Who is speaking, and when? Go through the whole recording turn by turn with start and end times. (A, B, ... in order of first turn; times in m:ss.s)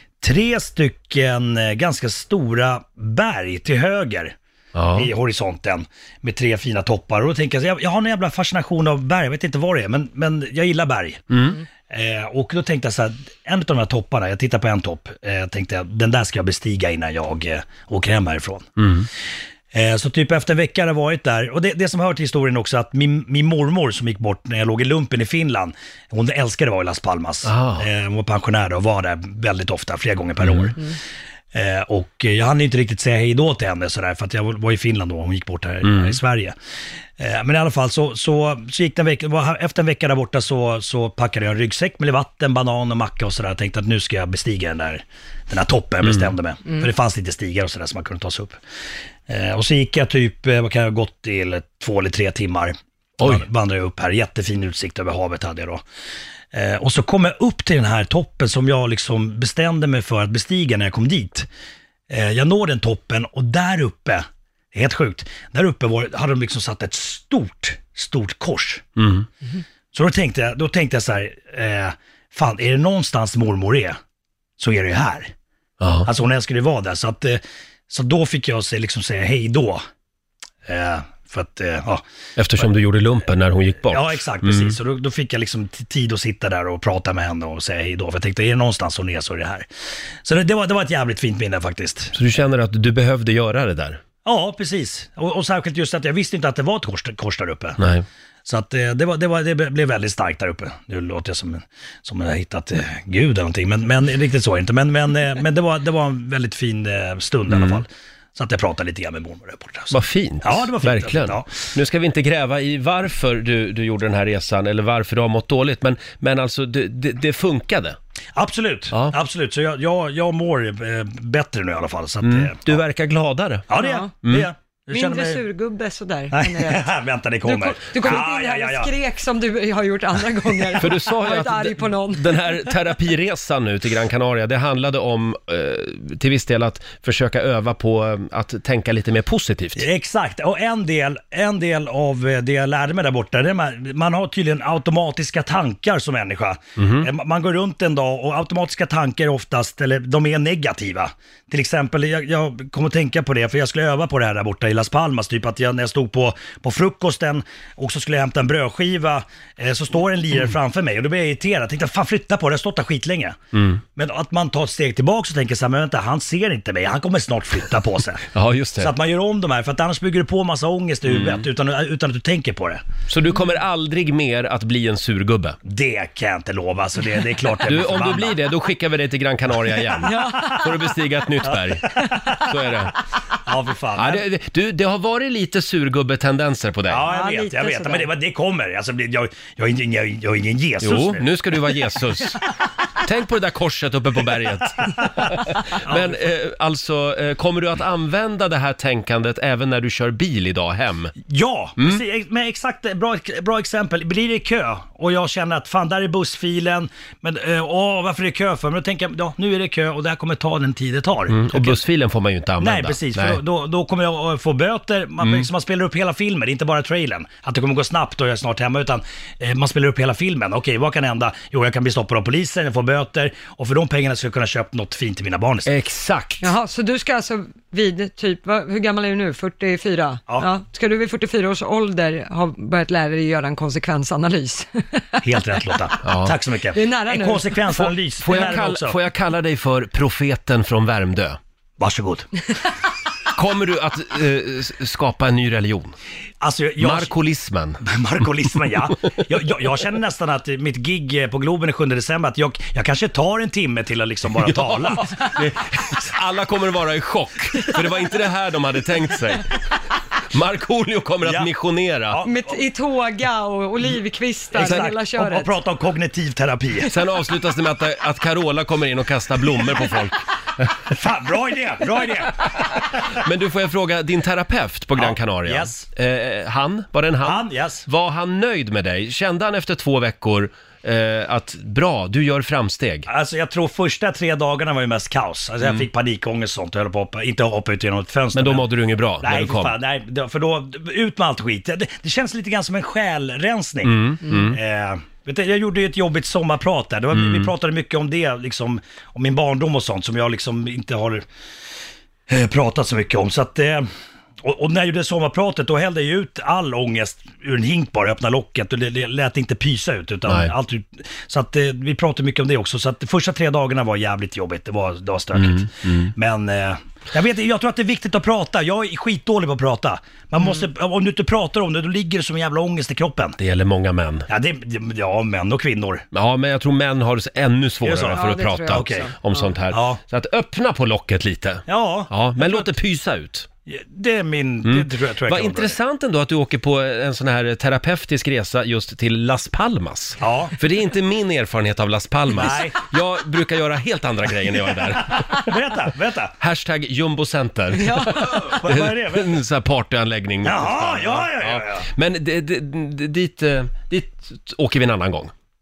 0:00.2-0:04.4 A
0:04.7-0:05.1 B
0:04.9-0:11.3 A
0:11.3-0:11.6 B
0:11.9-0:18.7 A
0:18.8-0:19.1 B
0:19.7-0:30.8 A
0:27.4-0:27.9 B
0:30.4-0:30.7 B
0:31.5-0:36.5 A
0:35.8-0:36.2 B
0:37.2-0:48.6 A
0:46.0-0:46.3 B
0:49.3-0:55.8 A
0:56.5-1:01.5 A
1:02.1-1:08.8 A
1:09.0-1:09.3 B
1:09.9-1:14.0 A
1:14.6-1:15.3 A
1:15.8-1:16.1 B
1:16.0-1:19.8 A
1:20.6-1:22.0 A
1:22.4-1:24.8 B
1:23.9-1:29.7 A
1:30.2-1:32.1 A
1:32.1-1:34.0 B
1:34.2-1:37.8 A
1:37.8-1:38.0 B
1:38.4-1:51.5 A
1:47.5-1:47.8 B
1:49.9-1:58.0 B
1:58.3-2:02.8 A
2:02.2-2:03.7 B
2:03.7-2:05.4 A
2:03.7-2:04.1 C
2:04.9-2:06.9 C
2:06.3-2:08.9 A
2:07.4-2:12.6 C
2:10.8-2:19.8 B
2:19.7-2:43.4 A
2:26.8-2:27.1 B
2:43.5-2:43.8 B
2:43.9-2:48.2 A
2:48.3-2:48.9 B
2:48.8-2:52.8 A
2:51.0-2:51.5 B
2:53.1-2:55.6 B
2:55.6-2:58.4 A
2:57.6-3:02.9 B
3:00.0-3:00.4 A
3:00.0-3:00.6 C
3:03.4-3:04.2 A
3:04.0-3:07.0 B
3:06.9-3:11.2 A
3:07.1-3:08.1 C
3:10.8-3:12.4 B
3:13.0-3:21.1 B
3:15.8-3:16.2 A
3:21.2-3:31.8 A
3:21.8-3:22.0 B
3:31.3-3:33.4 B
3:32.6-3:45.7 A
3:35.2-3:35.5 B
3:45.6-3:46.5 B
3:46.4-3:55.2 C
3:55.2-3:59.0 A
3:56.0-3:56.4 B
3:56.7-3:57.9 C
3:58.2-4:01.4 B
4:01.8-4:02.3 A
4:03.3-4:05.9 B
4:06.4-4:07.1 A
4:06.8-4:07.8 B
4:07.8-4:15.2 A
4:14.4-4:19.5 B
4:20.3-4:22.2 B
4:21.2-4:21.5 A
4:22.1-4:22.5 A
4:22.2-4:25.5 C
4:24.5-4:26.9 A
4:24.6-4:24.9 B
4:26.9-4:30.7 B
4:30.9-4:32.8 A
4:33.2-4:43.1 B
4:35.0-4:35.8 A
4:37.2-4:37.8 A
4:43.1-4:48.6 A
4:45.6-4:45.9 B
4:48.3-4:49.8 B
4:49.2-5:01.2 A
4:53.8-4:54.6 B
4:57.1-4:57.5 B
5:02.3-5:03.9 A
5:04.4-5:23.4 A
5:10.2-5:10.5 B
5:15.3-5:16.1 B
5:23.4-5:24.3 B
5:24.3-5:26.0 A
5:26.1-5:33.5 B
5:27.8-5:29.1 A
5:28.1-5:29.4 C
5:29.7-5:30.0 A
5:31.7-5:32.6 A
5:33.7-5:35.8 A
5:34.6-5:45.6 B
5:40.2-5:40.6 A
5:42.3-5:42.8 A
5:45.2-5:46.3 A
5:46.4-5:55.3 B
5:47.8-5:48.4 C
5:48.4-5:49.4 A
5:50.4-5:51.9 A